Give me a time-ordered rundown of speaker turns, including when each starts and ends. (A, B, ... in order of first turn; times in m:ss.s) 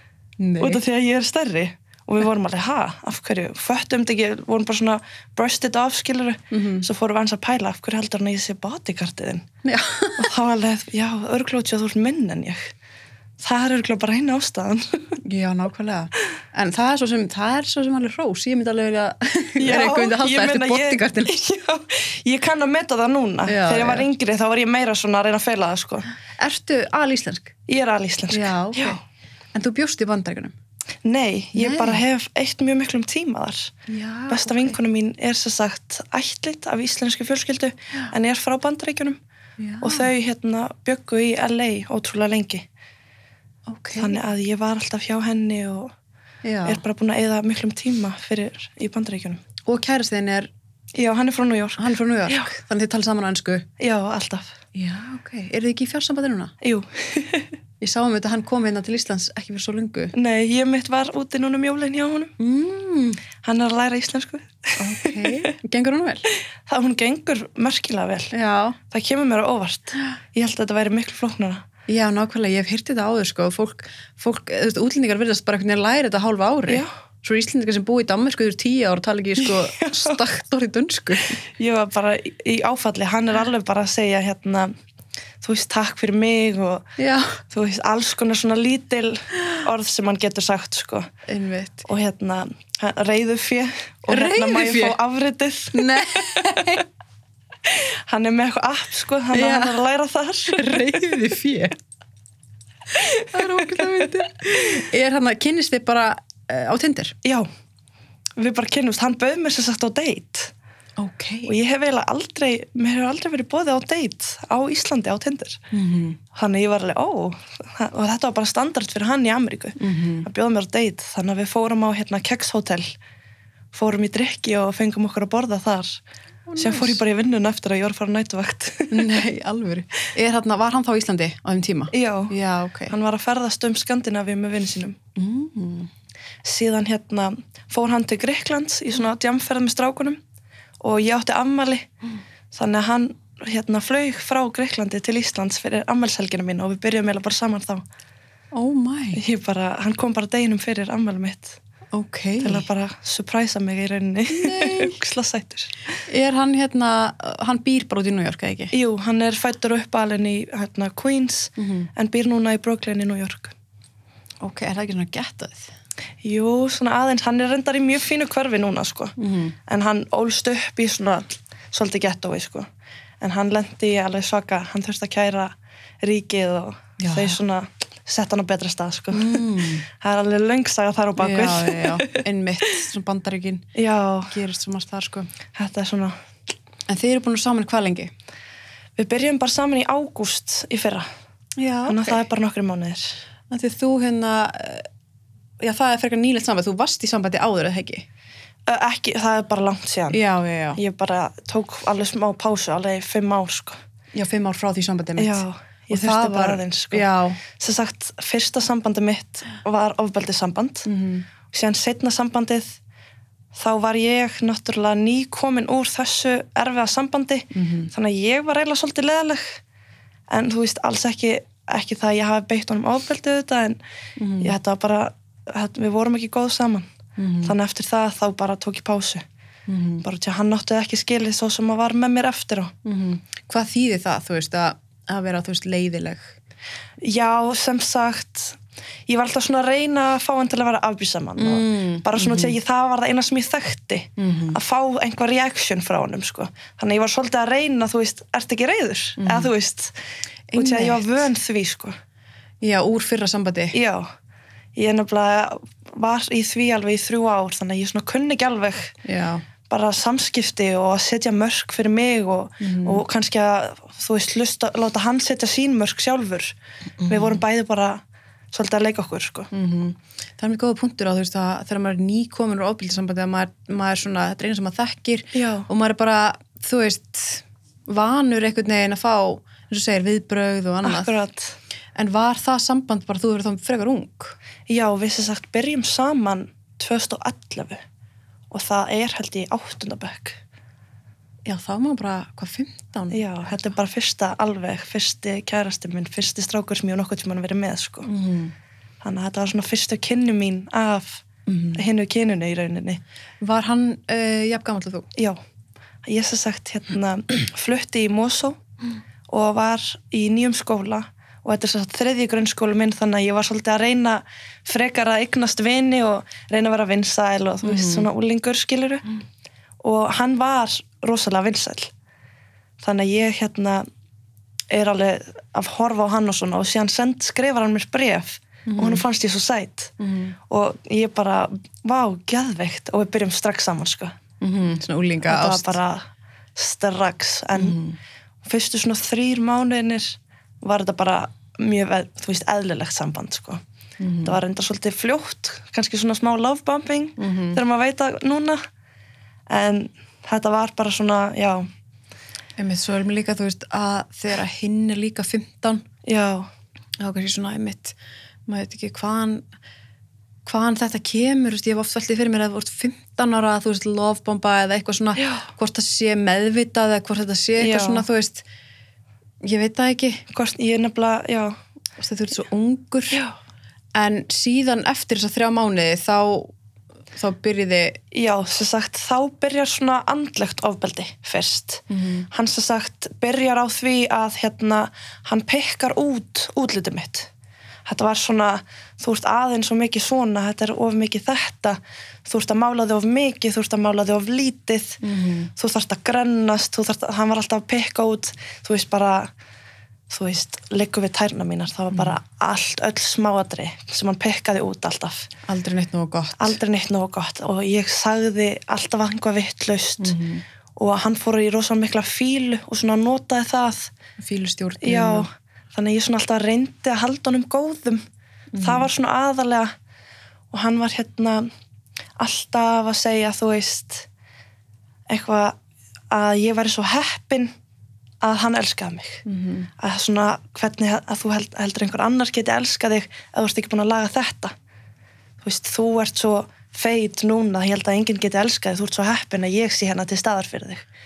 0:00.4-0:00.8 A
0:00.6-0:09.4 B
0:06.5-0:06.8 A
0:09.6-0:10.3 A
0:10.2-0:12.7 B
0:13.4-0:15.1 B
0:15.2-0:21.4 A
0:19.6-0:26.1 B
0:23.5-0:24.1 A
0:26.4-0:27.5 A
0:27.7-0:29.0 B
0:28.3-0:29.0 A
0:29.5-0:30.5 A
0:31.0-0:33.7 B
0:31.6-0:32.0 A
0:33.9-0:34.8 A
0:34.3-0:39.2 B
0:39.6-0:40.1 A
0:39.8-0:42.6 B
0:43.7-0:44.2 A
0:44.0-0:45.9 B
0:46.4-0:46.8 A
0:46.6-0:49.4 B
0:49.6-0:50.5 A
0:50.9-0:52.5 B
0:51.8-0:53.7 A
0:53.8-0:54.5 B
0:54.7-0:56.5 A
0:56.6-0:57.5 B
0:57.8-1:00.1 A
1:00.1-1:02.3 B
1:02.4-1:03.2 A
1:03.4-1:05.4 B
1:04.8-1:06.3 A
1:06.6-1:08.3 B
1:08.3-1:08.8 A
1:08.9-1:11.6 B
1:11.9-1:21.4 A
1:19.4-1:20.2 B
1:21.4-1:24.7 B
1:25.4-1:26.9 B
1:27.0-1:27.4 A
1:27.5-1:31.1 B
1:31.3-1:31.8 A
1:31.8-1:36.6 B
1:34.1-1:35.0 A
1:35.7-1:36.8 A
1:37.7-1:41.1 B
1:39.3-1:39.8 A
1:40.5-1:41.8 A
1:42.9-1:44.1 B
1:43.3-1:47.1 A
1:48.4-1:50.5 B
1:51.0-1:51.5 A
1:51.4-1:55.6 B
1:55.7-1:56.2 A
1:56.3-2:02.9 B
1:59.8-2:00.3 A
2:03.7-2:06.0 B
2:06.5-2:07.0 A
2:06.6-2:09.1 B
2:08.9-2:12.9 A
2:11.9-2:12.3 B
2:12.9-2:15.0 B
2:15.2-2:15.9 A
2:16.4-2:20.2 B
2:20.8-2:21.9 B
2:22.5-2:27.8 B
2:28.5-2:29.2 A
2:29.1-2:31.6 B
2:31.9-2:32.7 A
2:32.4-2:35.7 B
2:34.3-2:34.9 A
2:36.1-2:38.7 A
2:38.7-2:43.5 B
2:41.6-2:41.9 A
2:44.4-2:45.7 A
2:46.2-2:49.1 B
2:49.2-2:49.5 A
2:49.7-2:52.7 B
2:53.2-3:02.2 B
2:57.0-2:57.4 A
2:59.1-2:59.8 A
3:01.2-3:03.7 A
3:03.7-3:04.3 B
3:04.3-3:05.3 A
3:05.5-3:06.2 B
3:06.9-3:08.1 A
3:09.0-3:11.0 B
3:11.6-3:12.2 A
3:11.9-3:13.2 B
3:13.5-3:14.9 A
3:15.6-3:18.0 A
3:18.7-3:20.2 B
3:20.1-3:20.8 A
3:20.8-3:23.8 B
3:24.1-3:27.4 A
3:25.2-3:27.1 B
3:27.6-3:30.9 B
3:30.8-3:31.3 A
3:31.5-3:32.8 B
3:33.5-3:39.6 B
3:37.5-3:37.9 A
3:40.3-3:43.8 B
3:44.2-3:44.6 A
3:44.4-3:46.9 B
3:47.2-3:47.6 A
3:47.4-3:49.2 B
3:49.7-3:50.0 A
3:50.0-3:52.7 B
3:52.8-3:56.3 A
3:57.0-4:09.9 B
4:01.4-4:02.6 A
4:04.2-4:04.6 A
4:09.2-4:09.5 A
4:10.5-4:11.2 A
4:10.5-4:11.9 B
4:12.6-4:13.7 A
4:13.7-4:14.1 B
4:14.7-4:18.9 B
4:19.0-4:19.4 A
4:19.7-4:26.5 B
4:22.6-4:23.0 A
4:27.0-4:27.4 A
4:27.0-4:28.0 B
4:28.5-4:29.5 B
4:29.5-4:41.2 A
4:35.3-4:35.7 B
4:40.8-4:41.6 B
4:41.9-4:44.4 A
4:44.7-4:47.8 B
4:48.5-4:50.4 B
4:51.4-4:53.7 A
4:53.1-4:58.1 B
4:58.1-4:58.5 A
4:59.0-5:03.0 B
5:01.5-5:01.8 A
5:03.4-5:05.1 A
5:06.0-5:08.6 B
5:09.3-5:19.0 B
5:17.6-5:18.1 A
5:19.8-5:21.9 B
5:22.8-5:23.8 B
5:24.7-5:29.9 B
5:28.7-5:29.0 A
5:30.0-5:30.4 A
5:30.5-5:34.2 B
5:34.4-5:35.8 A
5:35.2-5:36.0 B
5:36.6-5:37.8 B
5:37.6-5:38.0 A
5:38.4-5:43.6 B
5:44.0-5:44.4 A
5:44.2-5:48.6 B
5:47.2-5:47.6 A
5:49.5-5:51.6 B
5:52.6-5:55.8 A
5:56.0-5:56.5 B
5:57.0-5:58.0 A
5:58.5-5:59.4 A
6:00.4-6:08.4 A
6:05.2-6:05.4 B
6:07.6-6:08.1 B
6:09.4-6:10.2 A
6:10.3-6:11.5 B
6:12.0-6:13.2 A
6:13.9-6:16.5 A
6:17.1-6:18.0 A
6:18.1-6:27.3 B
6:21.9-6:22.3 A
6:27.8-6:35.0 B
6:35.0-6:35.5 A
6:35.6-6:39.3 B
6:40.1-6:45.3 B
6:45.5-6:46.6 A
6:46.4-6:50.2 B
6:50.0-6:50.4 A
6:50.8-6:53.9 B
6:54.2-6:55.3 A
6:54.8-6:58.0 B
6:58.5-6:58.8 A
6:58.6-6:59.7 B
7:00.5-7:01.5 B
7:02.2-7:04.1 B
7:05.1-7:05.6 B
7:06.1-7:07.5 B
7:08.2-7:09.2 B
7:09.2-7:09.7 A
7:09.8-7:14.5 B
7:15.4-7:20.8 B